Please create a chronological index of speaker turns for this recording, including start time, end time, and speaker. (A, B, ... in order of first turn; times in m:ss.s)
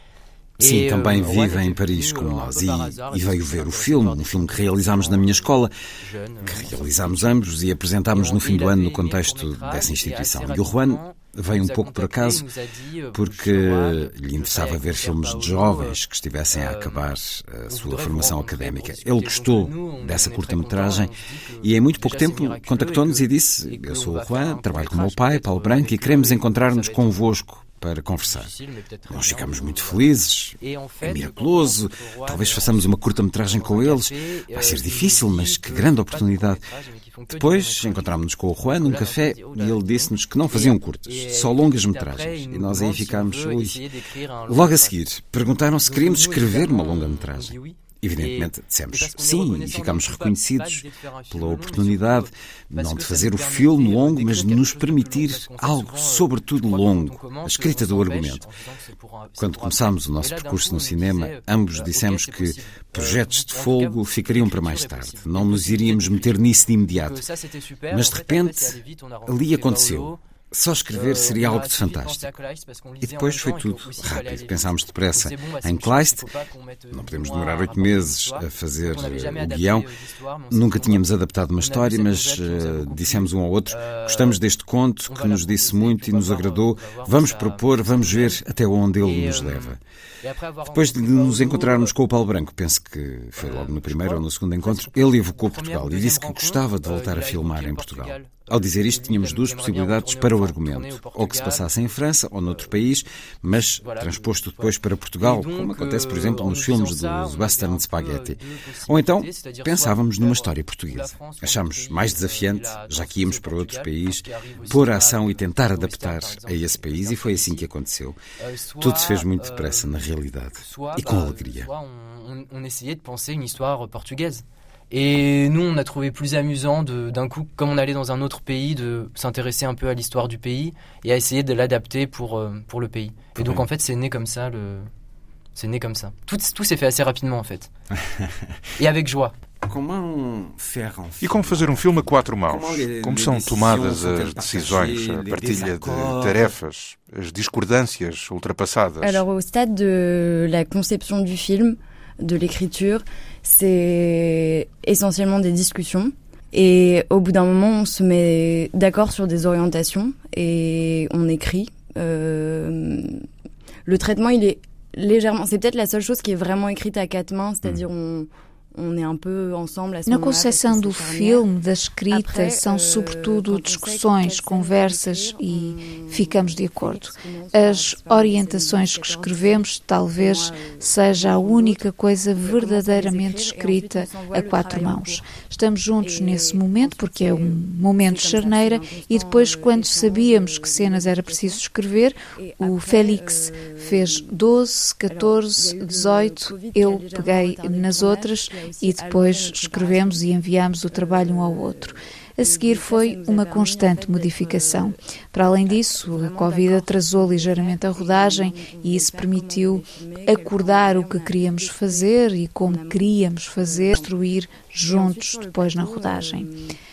0:00.6-0:07.5 A
0:00.6-0:05.7 B
0:06.4-0:12.5 B
0:08.1-0:16.0 A
0:13.1-0:28.5 B
0:16.5-0:17.1 A
0:17.7-0:27.2 A
0:28.2-0:30.1 A
0:29.1-0:36.6 B
0:30.6-0:45.0 A
0:37.3-0:43.8 B
0:44.5-0:58.5 B
0:45.8-1:10.2 A
0:59.4-1:07.2 B
1:07.9-1:12.3 B
1:10.9-1:24.4 A
1:13.0-1:16.3 B
1:16.9-1:19.9 B
1:20.5-1:29.8 B
1:25.1-1:28.4 A
1:29.0-1:31.9 A
1:30.7-1:58.2 B
1:33.4-1:42.8 A
1:43.7-1:57.7 A
1:58.4-1:59.9 A
1:58.8-2:01.7 B
2:00.6-2:14.9 A
2:13.3-2:13.7 B
2:15.5-2:17.7 A
2:18.0-2:18.5 B
2:18.8-2:19.3 A
2:19.6-2:26.6 B
2:21.2-2:29.2 C
2:29.0-2:43.2 D
2:43.8-2:51.5 D
2:50.0-3:36.5 E
2:52.1-3:05.4 D
3:06.0-3:11.6 D
3:12.3-3:14.4 D
3:15.1-3:25.0 D
3:25.6-3:34.2 D
3:34.8-3:36.7 D